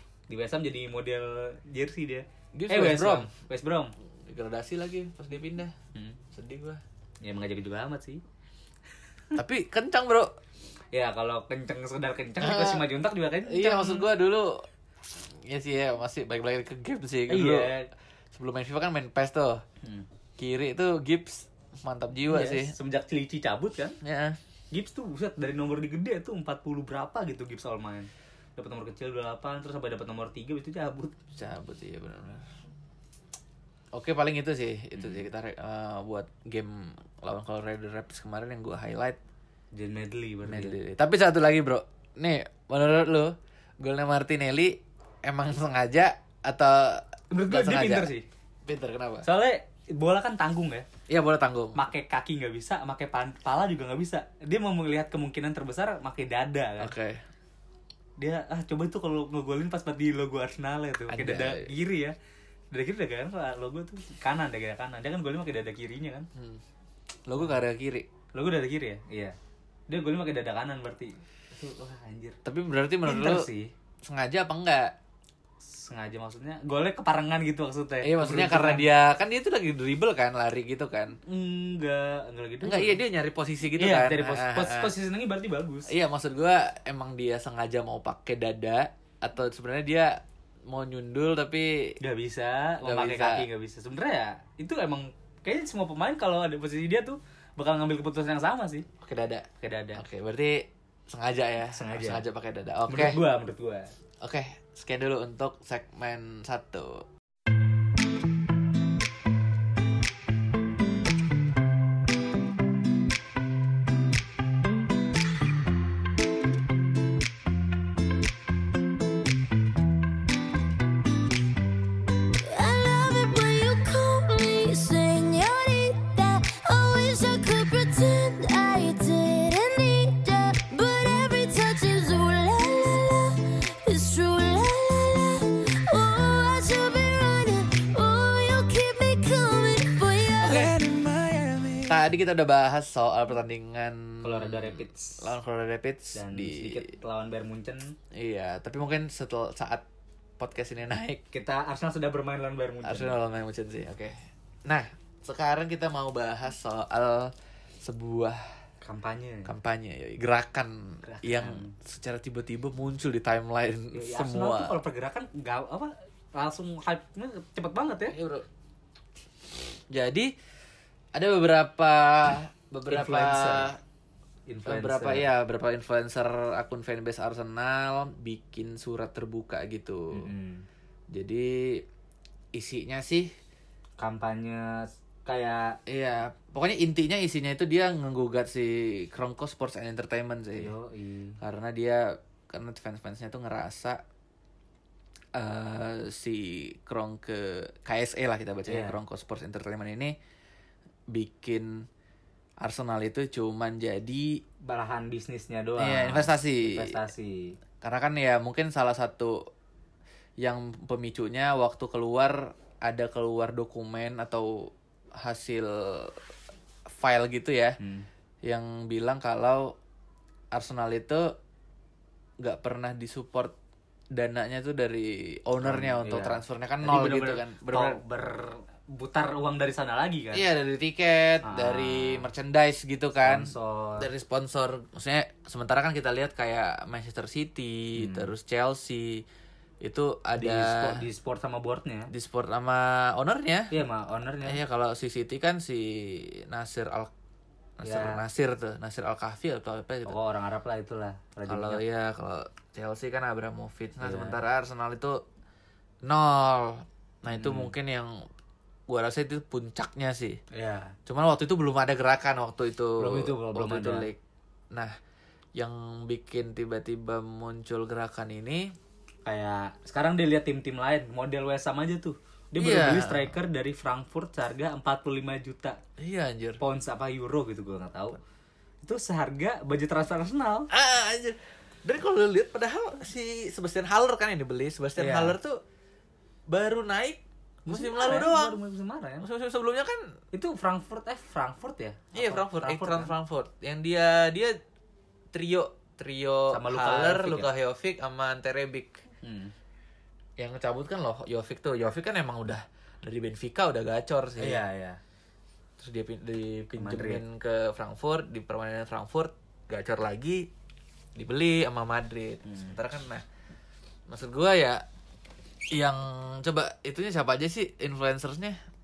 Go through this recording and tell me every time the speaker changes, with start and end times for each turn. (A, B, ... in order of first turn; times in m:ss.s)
0:00.3-0:03.9 A
0:02.5-0:03.3 B
0:04.3-0:05.7 B
0:05.9-0:06.2 A
0:06.3-0:06.8 B
0:07.2-0:08.2 A
0:09.3-0:10.3 B
0:10.9-0:14.1 A
0:12.4-0:12.9 B
0:13.4-0:17.8 B
0:17.3-0:17.9 A
0:18.3-0:19.6 B
0:20.4-0:22.7 B
0:22.3-0:24.0 A
0:24.0-0:24.4 B
0:24.7-0:31.2 A
0:31.3-0:32.5 B
0:33.9-0:39.2 B
0:35.0-0:35.2 A
0:39.7-0:40.8 A
0:40.4-0:48.1 B
0:47.3-0:48.2 A
0:48.6-0:49.3 B
0:49.2-0:50.8 A
0:51.1-0:51.8 B
0:51.7-0:56.9 A
0:56.8-0:57.2 B
0:58.2-1:02.1 A
1:01.1-1:01.7 B
1:02.7-1:06.3 A
1:06.3-1:06.6 B
1:07.3-1:08.1 B
1:08.3-1:09.4 A
1:09.9-1:12.4 A
1:12.4-1:13.5 B
1:13.0-1:13.7 A
1:14.0-1:15.0 B
1:15.6-1:18.9 A
1:18.0-1:21.2 B
1:21.2-1:23.0 A
1:22.6-1:24.9 B
1:23.8-1:25.9 A
1:25.9-1:32.0 B
1:32.0-1:38.9 A
1:32.8-1:33.4 B
1:39.0-1:43.2 B
1:39.6-1:40.0 A
1:41.7-1:42.2 A
1:42.9-1:43.9 A
1:44.2-1:47.0 B
2:02.4-2:20.8 C
2:20.4-2:26.9 B
2:24.2-2:25.3 A
2:26.1-2:28.0 A
2:28.1-2:29.8 B
2:30.4-2:31.2 B
2:31.3-2:33.2 A
2:32.8-2:38.5 B
2:38.8-2:39.5 A
2:39.4-2:44.8 B
2:41.0-2:41.7 A
2:43.9-2:48.2 A
2:48.1-2:48.4 B
2:49.9-2:50.3 B
2:51.1-2:53.8 B
2:52.9-2:53.7 A
2:54.5-2:55.3 A
2:54.6-3:00.3 B
3:00.1-3:00.6 A
3:01.1-3:01.8 B
3:02.5-3:03.3 B
3:04.0-3:05.8 A
3:05.9-3:10.7 B
3:10.6-3:11.4 A
3:11.4-3:14.0 B
3:15.3-3:20.2 B
3:18.7-3:19.0 A
3:21.1-3:21.9 B
3:22.6-3:24.4 B
3:24.6-3:27.6 A
3:25.8-3:27.0 B
3:27.8-3:29.4 B
3:30.4-3:36.2 B
3:36.9-3:37.8 B
3:37.8-3:38.1 A
3:38.4-3:39.8 B
3:40.5-3:41.3 B
3:42.4-3:43.5 B
3:44.1-3:48.0 B
3:45.6-3:50.4 A
3:50.3-3:59.2 B
3:51.4-3:52.3 A
3:53.2-3:54.1 A
3:57.9-3:58.3 A
3:59.8-4:01.0 B
4:00.4-4:02.1 A
4:02.1-4:03.7 B
4:03.7-4:04.6 A
4:04.4-4:07.1 B
4:07.8-4:10.2 B
4:07.8-4:08.2 A
4:10.0-4:11.8 A
4:11.5-4:15.2 B
4:14.0-4:14.4 A
4:16.0-4:18.2 B
4:17.3-4:17.7 A
4:18.9-4:20.4 B
4:20.5-4:20.9 A
4:21.1-4:24.2 B
4:23.0-4:24.1 A
4:25.6-4:28.7 B
4:29.2-4:35.8 A
4:32.6-4:33.4 B
4:36.0-4:36.6 B
4:36.6-4:38.2 A
4:38.8-4:40.7 A
4:40.7-4:45.6 B
4:45.0-4:45.4 A
4:46.5-4:48.6 B
4:47.6-4:49.2 A
4:49.2-4:50.2 B
4:50.3-4:53.1 A
4:52.1-4:54.6 B
4:55.3-4:59.0 B
4:56.5-4:57.5 A
4:59.2-4:59.5 A
5:00.4-5:04.6 B
5:04.4-5:05.0 A
5:05.8-5:10.5 B
5:06.8-5:07.2 A
5:11.1-5:13.2 B
5:12.4-5:12.8 A
5:14.1-5:14.8 B
5:15.7-5:18.6 B